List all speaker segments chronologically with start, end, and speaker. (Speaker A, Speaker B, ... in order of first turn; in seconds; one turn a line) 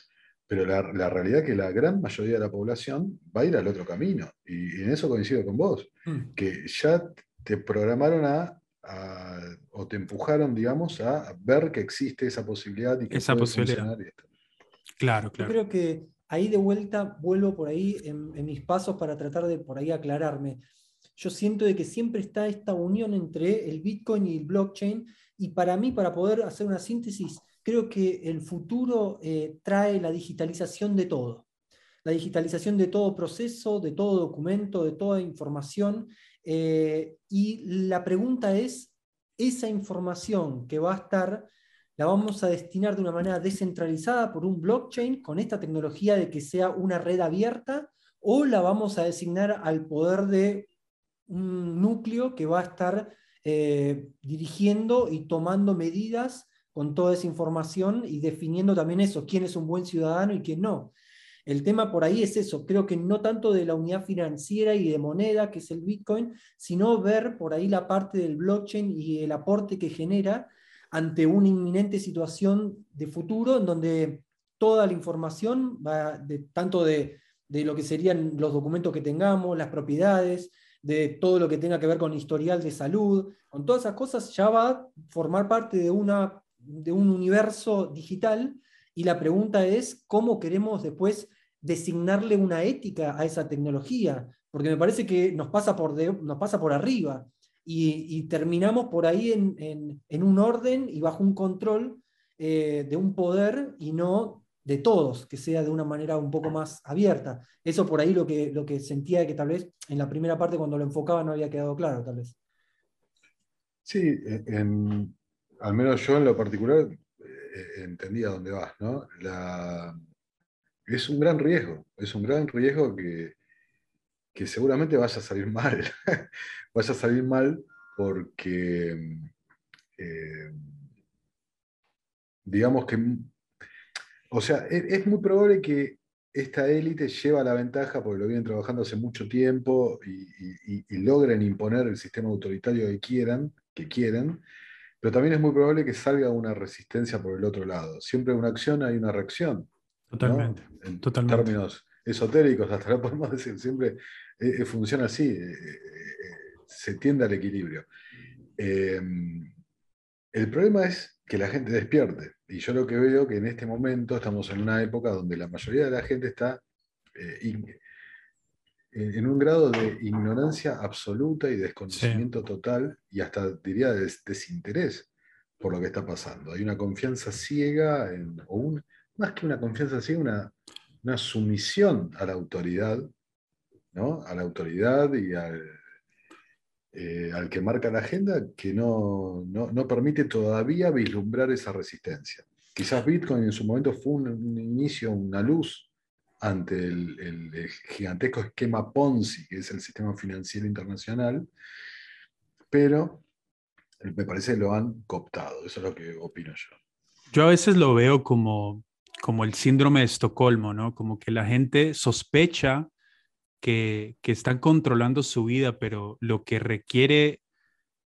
Speaker A: 0.5-14.2
Speaker B: 13.1-13.9
Speaker B: 15.0-15.5
Speaker C: 15.4-20.6
Speaker C: 21.1-31.4
Speaker C: 32.0-50.7
Speaker C: 51.3-60.9
Speaker C: 61.5-112.3
Speaker A: 113.8-119.9
Speaker A: 120.8-123.3
Speaker A: 124.3-129.3
Speaker A: 130.0-130.7
Speaker A: 132.4-133.3
Speaker A: 134.3-144.4
Speaker A: 145.0-157.9
Speaker B: 150.1-151.5
Speaker A: 158.6-159.5
Speaker A: 160.3-166.6
Speaker A: 167.2-167.8
Speaker A: 168.9-175.1
Speaker B: 171.9-172.2
Speaker A: 175.6-183.1
Speaker A: 183.9-185.8
Speaker A: 186.9-195.9
Speaker A: 196.4-201.5
Speaker A: 202.7-203.2
Speaker A: 204.0-206.8
Speaker B: 207.3-212.9
Speaker B: 213.6-217.4